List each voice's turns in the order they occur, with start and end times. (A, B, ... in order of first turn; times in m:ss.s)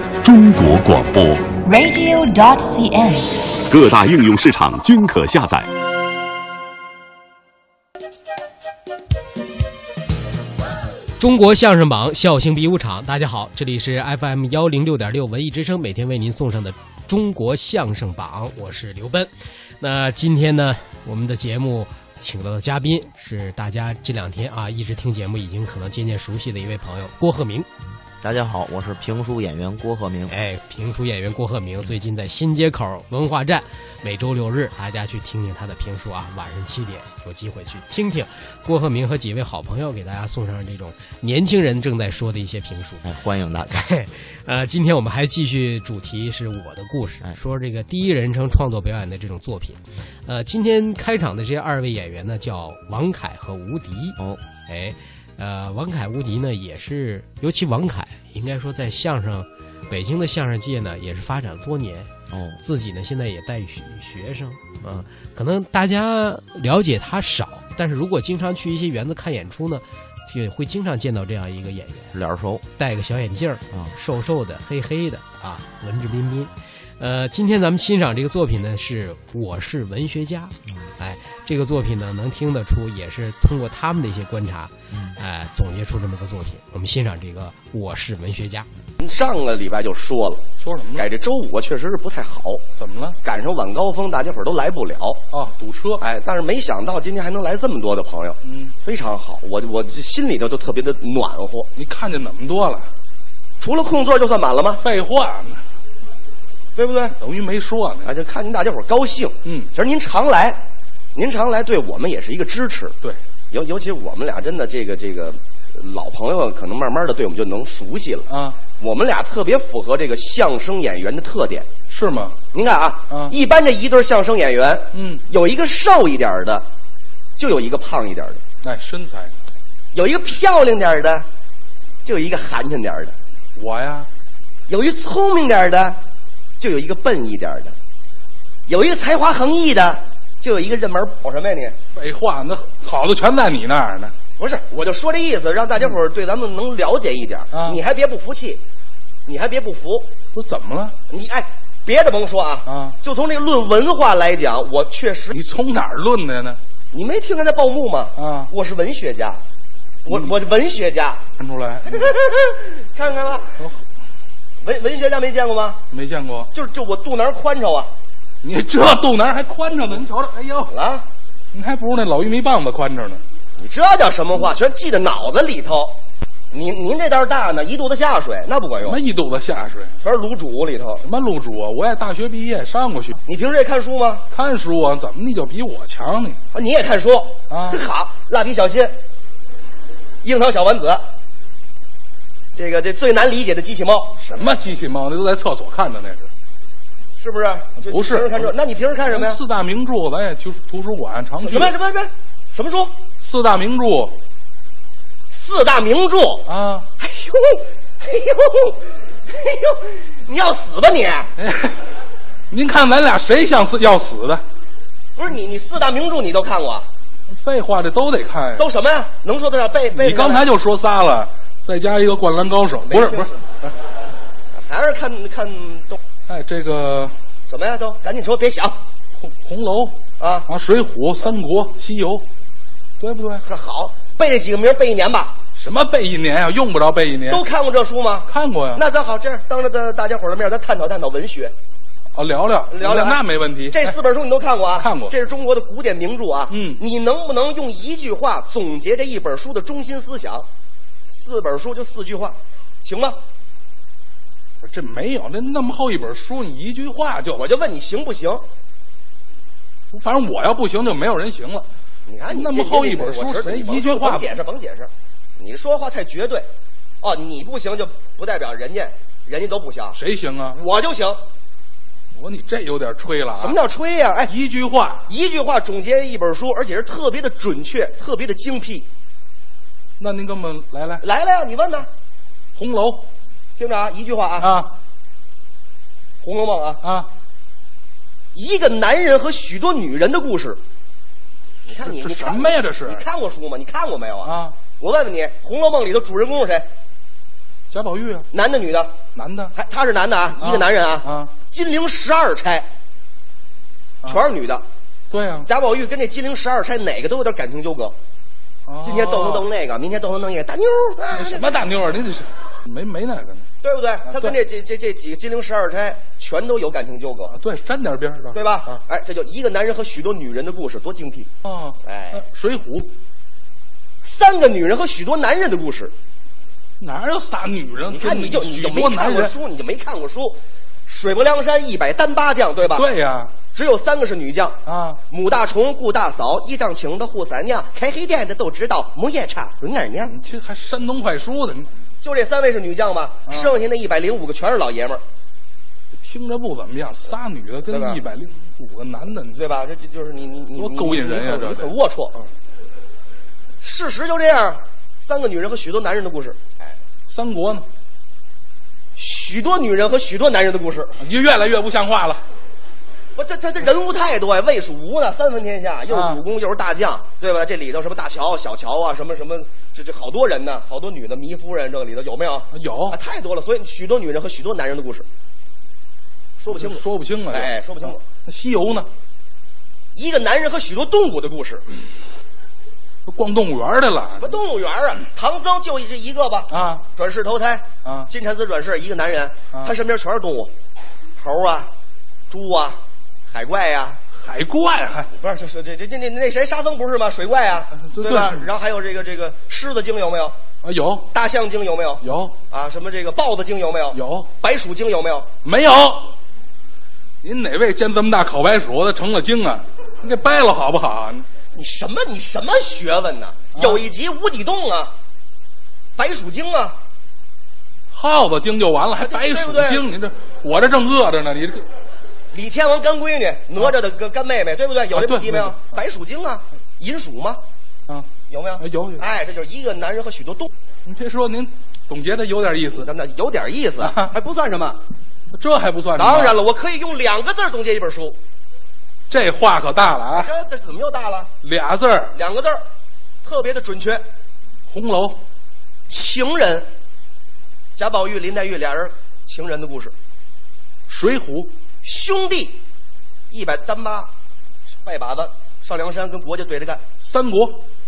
0:00.2-0:01.6 A
0:01.6-0:03.6 B
0:03.7-0:05.7 A
0:11.2-0:27.7 C
0:28.2-0:30.3 D
0:30.3-0:43.0 C
0:43.0-0:43.9 D
0:43.7-1:12.2 C
1:02.3-1:02.6 D
1:12.1-1:12.6 D
1:12.8-1:28.7 C
1:24.9-1:25.2 D
1:29.0-1:32.6 E
1:30.6-1:31.1 F
1:32.8-1:33.2 F
1:33.2-1:35.2 E
1:35.3-1:36.0 F
1:36.0-1:41.7 E
1:38.4-1:38.7 F
1:41.8-1:42.9 F
1:43.6-1:44.8 E
1:44.8-1:45.6 F
1:46.8-1:47.1 E
1:47.2-1:48.1 F
1:48.0-1:50.6 E
1:51.1-1:53.0 E
1:53.5-2:01.7 E
1:58.3-1:58.6 F
2:01.9-2:02.4 F
2:02.5-2:06.7 E
2:04.9-2:05.2 F
2:07.4-2:08.4 E
2:08.6-2:09.3 F
2:09.9-2:11.3 E
2:12.0-2:13.1 E
2:13.6-2:14.1 F
2:14.7-2:16.0 E
2:16.6-2:17.8 E
2:18.7-2:21.8 E
2:22.0-2:24.1 F
2:24.4-2:28.6 E
2:27.5-2:27.8 F
2:29.2-2:30.1 E
2:30.3-2:31.0 F
2:31.1-2:35.3 E
2:32.7-2:32.9 F
2:35.3-2:36.6 F
2:36.9-2:39.4 E
2:38.2-2:38.5 F
2:40.0-2:41.2 E
2:41.4-2:42.1 F
2:41.8-2:43.6 E
2:44.6-2:45.8 E
2:45.9-2:46.5 F
2:46.5-2:47.9 E
2:48.4-2:50.7 F
2:50.7-2:51.1 E
2:51.5-2:53.2 F
2:53.6-2:56.0 E
2:56.5-2:59.0 E
2:58.8-2:59.9 F
3:00.0-3:01.0 E
3:01.0-3:03.2 F
3:03.3-3:04.2 E
3:04.3-3:06.4 F
3:06.5-3:09.0 E
3:07.5-3:07.8 F
3:10.2-3:11.1 E
3:12.5-3:14.2 E
3:14.2-3:16.3 F
3:17.2-3:19.4 E
3:17.8-3:18.5 F
3:19.1-3:21.7 F
3:21.4-3:22.9 E
3:23.2-3:24.2 F
3:25.3-3:26.5 E
3:26.5-3:26.9 F
3:27.0-3:31.3 E
3:31.4-3:31.8 F
3:32.5-3:34.4 F
3:35.2-3:36.9 E
3:37.3-3:38.7 F
3:38.6-3:40.5 E
3:39.9-3:43.7 F
3:42.8-3:43.4 E
3:44.5-3:46.0 E
3:46.3-3:47.1 F
3:47.5-3:48.8 E
3:49.2-3:52.3 F
3:50.2-3:50.5 E
3:53.0-3:53.4 F
3:53.4-3:55.4 E
3:55.6-3:57.4 F
3:57.3-4:01.5 E
3:58.3-3:58.8 F
4:02.1-4:03.9 F
4:02.7-4:10.5 E
4:04.8-4:05.1 F
4:06.5-4:06.8 F
4:11.0-4:13.2 E
4:14.6-4:17.4 F
4:17.4-4:18.5 E
4:19.9-4:21.7 F
4:22.1-4:26.5 E
4:22.3-4:24.3 F
4:27.0-4:30.0 E
4:29.9-4:30.6 F
4:30.5-4:31.2 E
4:32.1-4:33.6 F
4:33.4-4:34.3 E
4:34.3-4:35.0 F
4:35.1-4:38.9 E
4:40.0-4:41.0 F
4:41.0-4:41.9 E
4:42.6-4:43.1 F
4:43.6-4:44.5 E
4:44.4-4:44.7 F
4:46.2-4:46.8 E
4:46.8-4:47.1 F
4:48.3-4:50.6 E
4:51.7-4:56.7 E
4:51.8-4:53.0 F
4:54.2-4:54.5 F
4:57.7-4:58.3 F
4:58.3-4:59.0 E
4:59.1-4:59.5 F
4:59.5-5:02.7 E
5:00.4-5:01.3 F
5:04.0-5:04.6 E
5:05.1-5:05.5 F
5:05.4-5:08.0 E
5:08.6-5:09.4 F
5:08.8-5:11.6 E
5:11.1-5:13.4 F
5:13.6-5:17.3 E
5:14.0-5:14.4 F
5:17.3-5:18.8 F
5:18.3-5:21.3 E
5:21.4-5:22.9 F
5:21.8-5:22.2 E
5:24.0-5:25.9 E
5:26.8-5:29.3 F
5:27.9-5:32.9 E
5:32.7-5:33.3 F
5:33.5-5:34.6 E
5:34.6-5:35.0 F
5:35.1-5:40.1 E
5:40.0-5:41.7 F
5:42.0-5:45.0 E
5:43.3-5:43.5 F
5:46.0-5:49.4 F
5:47.7-5:48.0 E
5:49.3-5:52.2 E
5:50.5-5:52.2 F
5:53.6-5:56.8 E
5:57.1-5:57.6 F
5:59.0-6:01.0 E
6:01.0-6:02.2 F
6:03.2-6:15.1 E
6:05.9-6:06.2 F
6:12.5-6:13.0 F
6:16.4-6:18.0 E
6:16.5-6:17.5 F
6:18.1-6:18.9 F
6:19.9-6:21.6 E
6:23.0-6:24.3 F
6:24.2-6:30.5 E
6:26.5-6:26.8 F
6:31.2-6:31.7 E
6:32.3-6:34.0 E
6:34.1-6:35.1 F
6:35.2-6:40.4 E
6:37.8-6:38.4 F
6:40.6-6:41.1 F
6:41.1-6:45.3 E
6:42.0-6:42.4 F
6:43.9-6:44.3 F
6:45.4-6:46.1 F
6:47.2-6:51.2 F
6:51.5-6:55.0 E
6:53.5-6:53.8 F
6:56.0-6:56.8 E
6:57.9-7:01.6 F
6:59.0-6:59.8 E
7:02.3-7:07.4 E
7:04.9-7:05.6 F
7:08.3-7:10.5 E
7:08.6-7:09.1 F
7:10.8-7:12.9 F
7:12.7-7:14.8 E
7:13.8-7:14.1 F
7:15.3-7:16.4 F
7:16.0-7:18.2 E
7:19.1-7:20.3 F
7:20.1-7:21.3 E
7:21.4-7:22.1 F
7:22.1-7:22.6 E
7:23.2-7:24.0 E
7:24.7-7:25.2 F
7:25.9-7:26.7 E
7:27.8-7:29.9 E
7:30.9-7:31.5 F
7:31.8-7:32.6 E
7:33.3-7:34.1 E
7:34.8-7:36.8 E
7:37.0-7:37.6 F